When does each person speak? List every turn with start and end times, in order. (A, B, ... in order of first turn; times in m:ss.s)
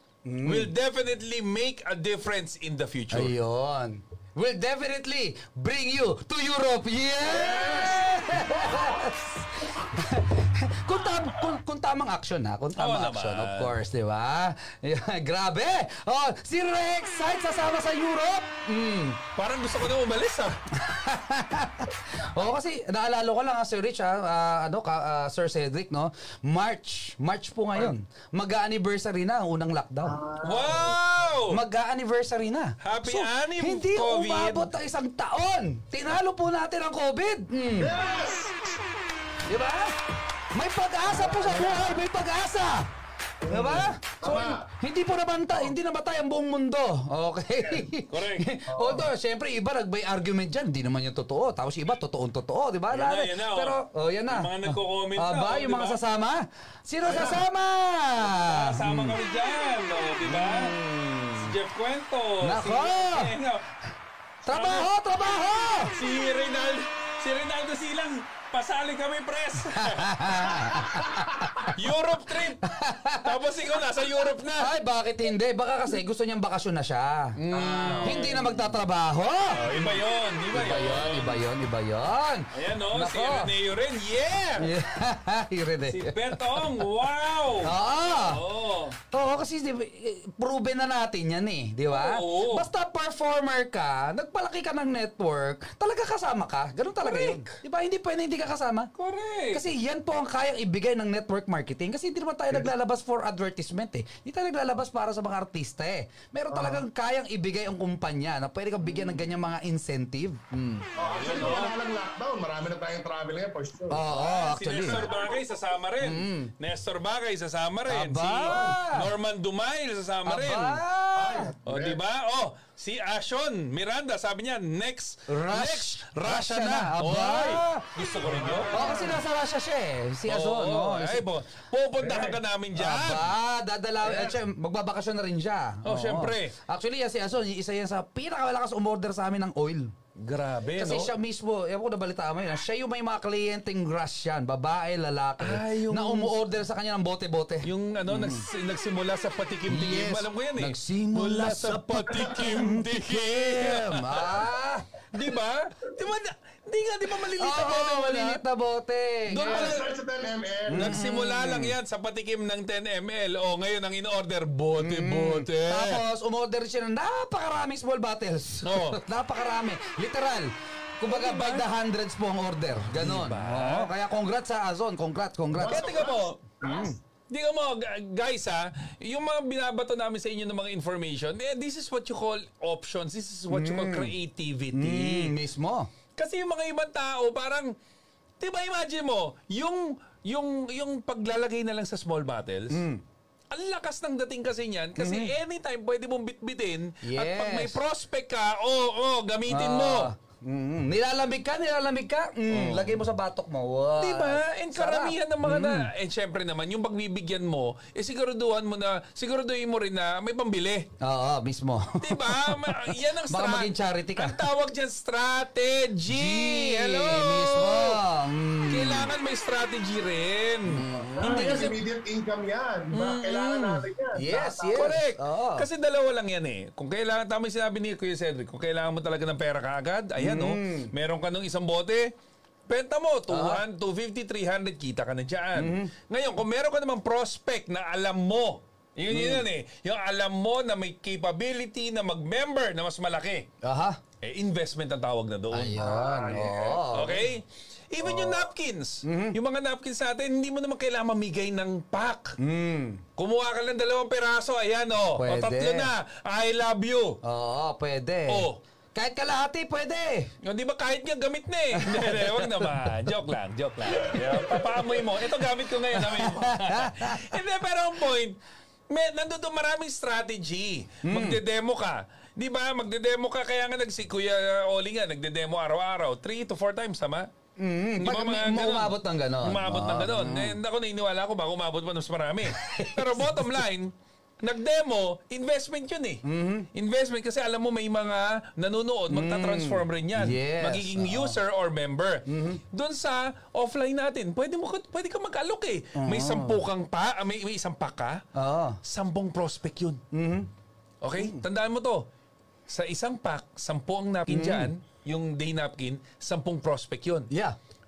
0:00.2-0:00.7 A
0:00.4-0:03.3 B
0:03.1-0:19.2 A
0:07.2-0:09.2 C
0:12.8-0:13.8 B
0:19.3-0:20.6 B
0:20.7-0:30.2 A
0:30.0-0:31.0 C
0:30.4-0:31.6 B
0:31.5-0:37.9 A
0:32.8-0:34.7 B
0:37.8-0:38.8 C
0:39.5-0:40.0 A
0:40.5-0:42.9 A
0:41.0-0:42.0 C
0:43.4-0:44.6 C
0:43.5-0:59.2 A
0:47.6-0:47.8 C
0:48.1-0:48.5 B
0:48.7-0:49.1 C
0:52.9-0:56.0 B
0:57.0-0:57.4 C
0:58.2-1:00.7 B
1:00.2-1:01.5 A
1:01.4-1:03.7 B
1:02.4-1:03.3 A
1:04.4-1:05.9 A
1:04.5-1:04.9 B
1:05.9-1:11.1 B
1:09.7-1:11.7 A
1:10.7-1:11.2 C
1:11.7-1:14.7 B
1:12.6-1:13.3 A
1:14.6-1:20.0 A
1:17.4-1:18.5 B
1:17.6-1:18.6 C
1:19.5-1:21.5 B
1:20.5-1:23.5 A
1:22.5-1:24.7 B
1:24.6-1:26.9 A
1:25.8-1:29.0 B
1:27.5-1:28.4 A
1:29.1-1:38.9 A
1:31.9-1:32.7 B
1:37.0-1:37.6 B
1:38.9-1:39.6 B
1:39.5-1:50.9 A
1:46.5-1:46.8 C
1:51.0-1:54.1 C
1:51.1-1:51.7 B
1:53.9-1:55.1 A
1:54.1-2:00.8 B
1:56.0-1:56.5 A
1:57.8-1:59.1 A
1:58.4-1:58.8 C
2:00.2-2:01.5 A
2:01.2-2:02.0 C
2:01.6-2:08.9 B
2:05.3-2:07.9 A
2:08.2-2:09.2 C
2:08.7-2:11.3 A
2:10.2-2:13.3 B
2:12.0-2:12.4 C
2:12.7-2:19.9 A
2:14.0-2:14.4 C
2:15.8-2:16.5 B
2:20.2-2:21.1 B
2:20.7-2:28.4 A
2:25.4-2:26.3 B
2:27.6-2:34.4 B
2:29.6-2:34.9 A
2:32.2-2:32.5 C
2:35.1-2:38.4 B
2:37.4-2:39.8 A
2:39.3-2:39.9 B
2:39.4-2:40.9 C
2:40.7-2:41.8 A
2:40.7-2:46.0 B
2:44.8-2:56.0 A
2:48.6-2:49.0 B
2:51.0-2:51.6 B
2:52.9-2:53.9 B
2:55.5-2:57.0 C
2:55.7-2:56.4 B
2:56.6-2:57.0 A
2:57.3-3:05.3 B
3:03.5-3:04.1 A
3:04.7-3:05.9 A
3:06.2-3:07.7 B
3:08.4-3:12.8 B
3:12.7-3:13.0 A
3:13.5-3:20.1 B
3:15.0-3:15.3 A
3:17.0-3:17.8 A
3:19.5-3:25.9 A
3:22.5-3:23.0 B
3:24.0-3:30.9 B
3:31.0-3:34.4 A
3:32.0-3:38.0 B
3:36.1-3:39.1 A
3:38.7-3:41.8 B
3:40.7-3:41.6 A
3:41.2-3:45.0 C
3:42.9-3:43.8 B
3:44.1-3:45.7 A
3:44.7-3:52.1 B
3:50.2-3:50.9 A
3:52.7-4:03.5 B
3:53.3-3:53.6 A
3:55.5-3:55.9 A
3:59.1-3:59.5 A
4:03.6-4:04.0 A
4:04.2-4:05.8 B
4:05.5-4:07.3 A
4:05.8-4:06.9 C
4:06.9-4:12.4 B
4:09.0-4:09.4 A
4:12.4-4:13.0 A
4:13.2-4:17.2 B
4:15.2-4:15.9 A
4:17.2-4:20.3 A
4:18.3-4:18.6 B
4:20.4-4:28.4 B
4:21.7-4:23.1 A
4:23.9-4:25.0 A
4:25.9-4:27.3 A
4:28.9-4:37.3 B
4:31.0-4:31.4 A
4:37.6-4:40.6 A
4:38.0-4:46.2 B
4:42.4-4:43.6 A
4:46.2-4:46.7 A
4:46.7-4:58.2 B
4:49.1-4:51.4 A
4:52.2-4:52.6 A
4:56.0-4:56.6 A
4:58.3-4:58.8 A
4:58.8-5:00.0 B
5:00.1-5:00.5 A
5:01.0-5:02.1 B
5:01.1-5:01.4 A
5:02.7-5:07.3 B
5:04.3-5:04.7 A
5:07.3-5:07.6 A